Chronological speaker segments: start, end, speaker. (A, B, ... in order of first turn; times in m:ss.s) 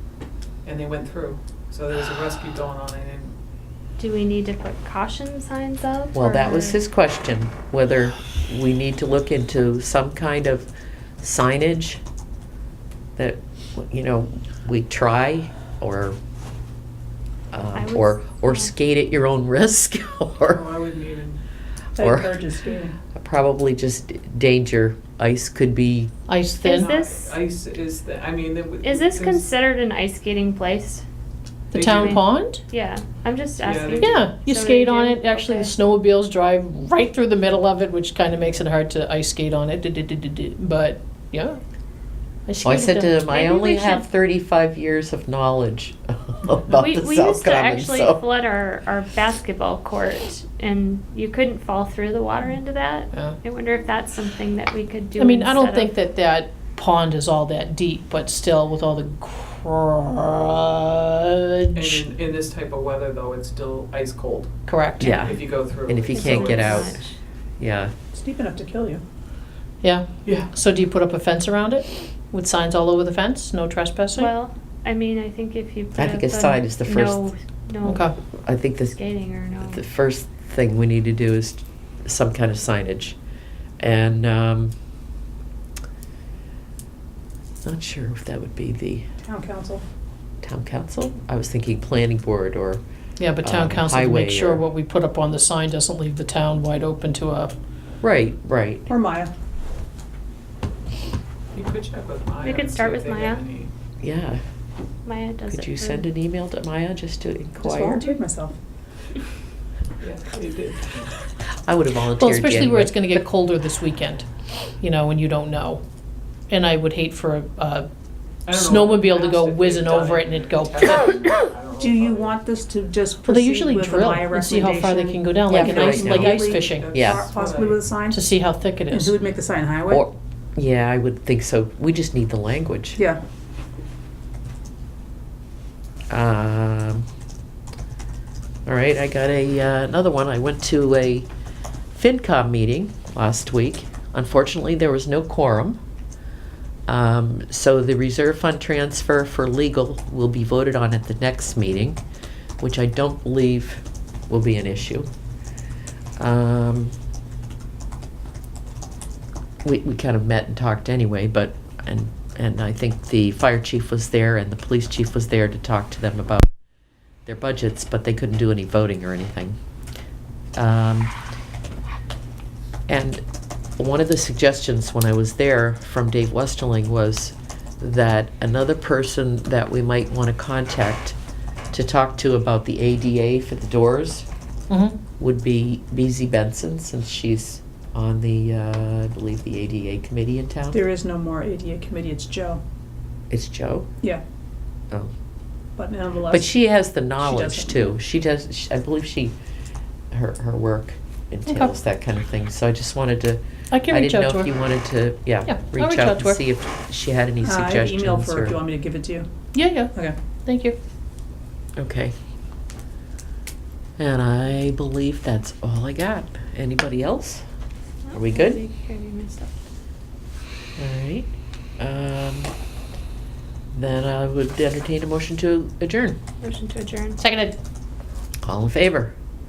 0:00.6-0:03.3 A
0:04.0-0:06.8 B
0:06.1-0:10.7 C
0:11.2-0:12.0 C
0:13.2-0:16.2 C
0:17.5-0:20.6 C
0:17.7-0:18.7 B
0:20.4-0:21.4 A
0:22.0-0:23.0 D
0:22.0-0:22.4 C
0:23.1-0:26.1 C
0:26.3-0:26.9 E
0:26.6-0:27.3 B
0:26.7-0:29.5 A
0:28.8-0:31.0 B
0:31.7-0:32.6 E
0:31.7-0:32.2 A
0:31.8-0:35.7 B
0:33.6-0:34.3 A
0:34.0-0:41.6 E
0:42.5-0:43.9 E
0:42.6-0:48.2 C
0:43.5-0:44.0 B
0:46.7-0:55.9 B
0:55.2-1:02.1 E
1:01.7-1:07.0 A
1:04.7-1:05.2 E
1:05.0-1:07.0 C
1:06.1-1:07.2 B
1:07.6-1:07.9 C
1:08.1-1:09.0 D
1:09.8-1:14.3 E
1:10.2-1:10.5 A
1:14.2-1:18.1 B
1:16.0-1:17.2 C
1:17.8-1:18.1 E
1:18.4-1:19.0 C
1:18.9-1:19.8 B
1:19.6-1:23.2 C
1:23.8-1:24.7 C
1:27.6-1:29.0 C
1:29.2-1:29.8 D
1:30.4-1:32.8 C
1:33.2-1:37.5 E
1:33.4-1:34.6 C
1:38.0-1:38.9 C
1:38.9-1:39.3 D
1:41.5-1:43.7 A
1:42.4-1:43.4 B
1:44.0-1:44.4 C
1:45.0-1:46.0 B
1:45.5-1:48.1 C
1:47.6-1:48.6 D
1:50.0-1:51.1 A
1:51.6-1:53.1 C
1:52.2-1:54.3 E
1:54.8-1:55.8 E
1:56.5-1:57.9 E
1:58.4-2:02.4 A
1:58.5-2:01.4 E
2:01.8-2:08.2 D
2:03.2-2:06.9 E
2:05.4-2:07.3 C
2:06.4-2:07.8 A
2:08.1-2:09.1 E
2:08.9-2:10.0 D
2:09.9-2:13.0 C
2:16.1-2:17.1 C
2:18.6-2:21.3 C
2:21.9-2:25.8 C
2:26.9-2:32.0 C
2:32.6-2:35.1 C
2:36.2-2:37.0 C
2:39.6-2:46.5 C
2:47.2-2:49.6 C
2:50.6-2:51.1 C
2:52.9-2:53.2 C
2:53.8-3:01.2 C
3:01.7-3:04.3 C
3:04.7-3:05.0 E
3:05.2-3:10.8 C
3:10.7-3:12.6 D
3:13.3-3:13.9 C
3:15.8-3:16.5 D
3:16.3-3:19.4 C
3:17.2-3:18.0 D
3:20.1-3:28.6 C
3:21.5-3:21.7 E
3:23.7-3:24.5 E
3:25.4-3:26.4 E
3:27.4-3:29.3 D
3:29.5-3:29.9 E
3:30.4-3:30.8 E
3:31.8-3:32.1 C
3:34.0-3:37.4 C
3:38.0-3:39.5 B
3:38.1-3:38.6 C
3:40.8-3:41.3 C
3:41.8-3:42.5 C
3:43.7-3:46.2 C
3:46.4-3:47.2 B
3:47.2-3:47.6 E
3:48.4-3:49.1 C